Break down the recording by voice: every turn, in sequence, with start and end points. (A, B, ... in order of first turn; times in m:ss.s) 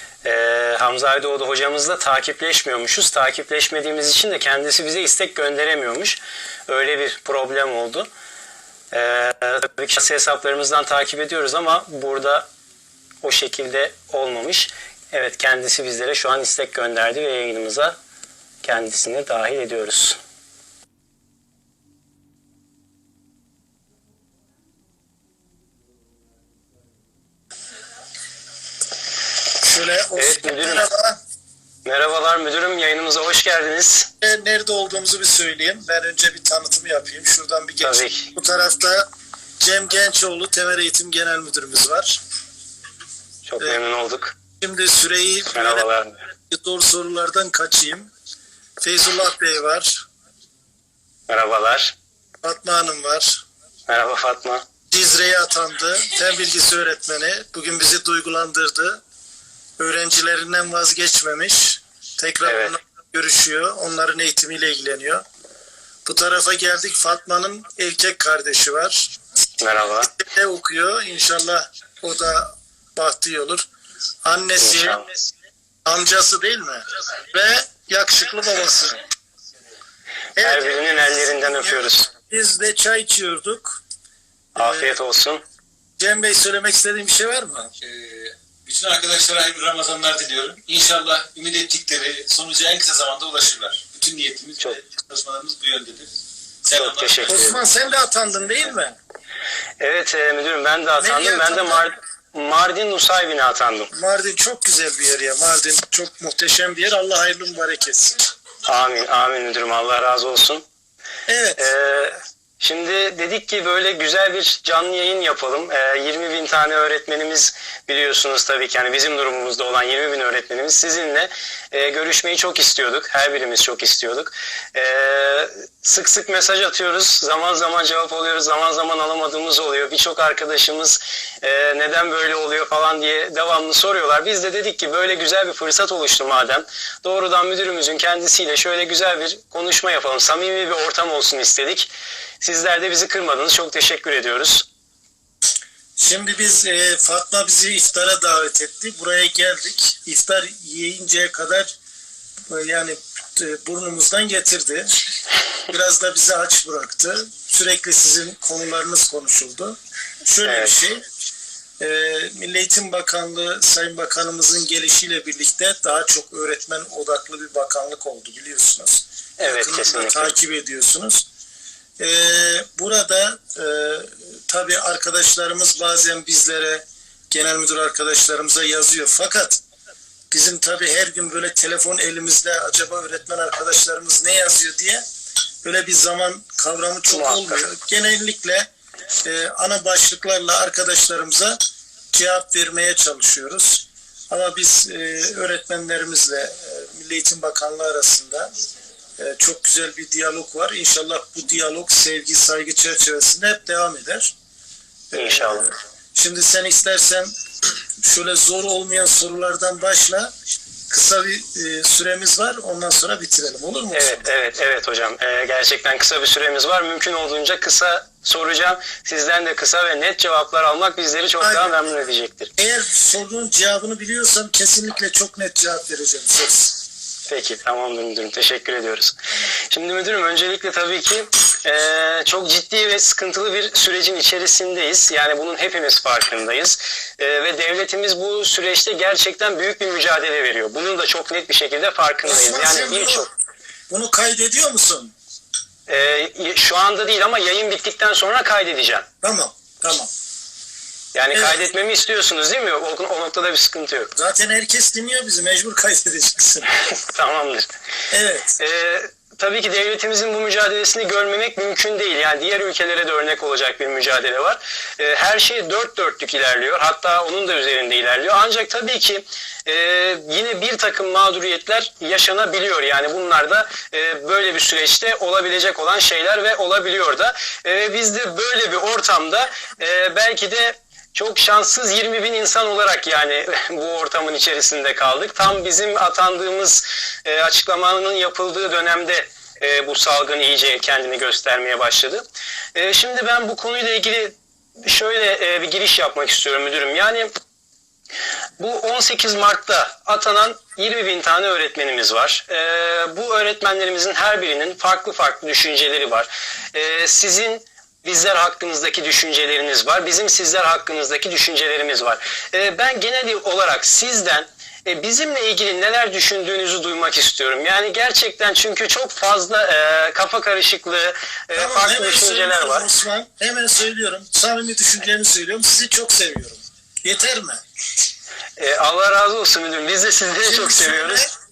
0:00.2-0:08.1 A
0:08.9-0:12.5 A
0:13.2-0:18.0 A
0:18.6-0:20.2 A
0:29.6-0:31.2 B
0:30.2-0:30.8 A
0:31.8-0:34.1 A
0:34.2-0:39.1 B
0:37.8-0:38.3 A
0:39.6-0:42.2 B
0:43.5-0:44.4 A
0:44.6-0:45.9 B
0:45.5-0:46.2 A
0:46.5-0:48.1 B
0:48.8-0:50.0 B
0:51.3-0:51.9 A
0:52.4-0:53.4 B
0:53.9-0:54.6 A
0:54.9-0:59.0 B
0:59.8-1:05.2 B
1:02.4-1:02.8 A
1:06.0-1:09.1 B
1:09.6-1:10.1 A
1:10.0-1:13.7 B
1:14.2-1:15.0 B
1:14.6-1:15.0 A
1:15.8-1:19.0 B
1:20.4-1:23.8 B
1:20.4-1:22.1 A
1:24.6-1:25.0 B
1:24.6-1:25.4 A
1:26.0-1:27.7 B
1:27.8-1:36.1 C
1:36.6-1:37.5 C
1:36.7-1:37.6 A
1:37.3-1:39.0 B
1:39.8-1:43.9 A
1:41.0-1:41.9 B
1:43.9-1:48.3 B
1:48.6-1:50.6 A
1:51.3-1:51.6 B
1:51.6-2:21.9 A
2:22.4-2:24.6 A
2:26.0-2:31.7 B
2:32.5-2:34.9 B
2:35.7-2:41.0 B
2:40.4-2:40.7 A
2:41.8-2:51.2 B
2:49.4-2:50.3 A
2:52.0-2:59.6 B
3:00.3-3:05.0 B
3:05.6-3:08.7 B
3:07.1-3:07.6 A
3:09.2-3:11.6 B
3:12.1-3:18.5 B
3:19.2-3:24.3 B
3:25.1-3:27.3 B
3:25.1-3:25.7 A
3:28.0-3:30.3 B
3:30.9-3:34.3 B
3:33.9-3:42.5 A
3:41.4-3:41.7 B
3:42.6-3:46.8 B
3:47.3-3:49.2 A
3:49.7-4:03.3 A
4:02.2-4:03.3 B
4:03.9-4:05.1 B
4:05.9-4:09.1 A
4:09.2-4:10.1 B
4:11.1-4:14.1 A
4:14.2-4:16.7 B
4:16.8-4:17.7 A
4:18.1-4:18.6 B
4:18.6-4:57.4 A
4:58.6-5:22.9 A
5:21.5-5:27.6 B
5:28.6-5:31.2 A
5:30.4-5:31.3 B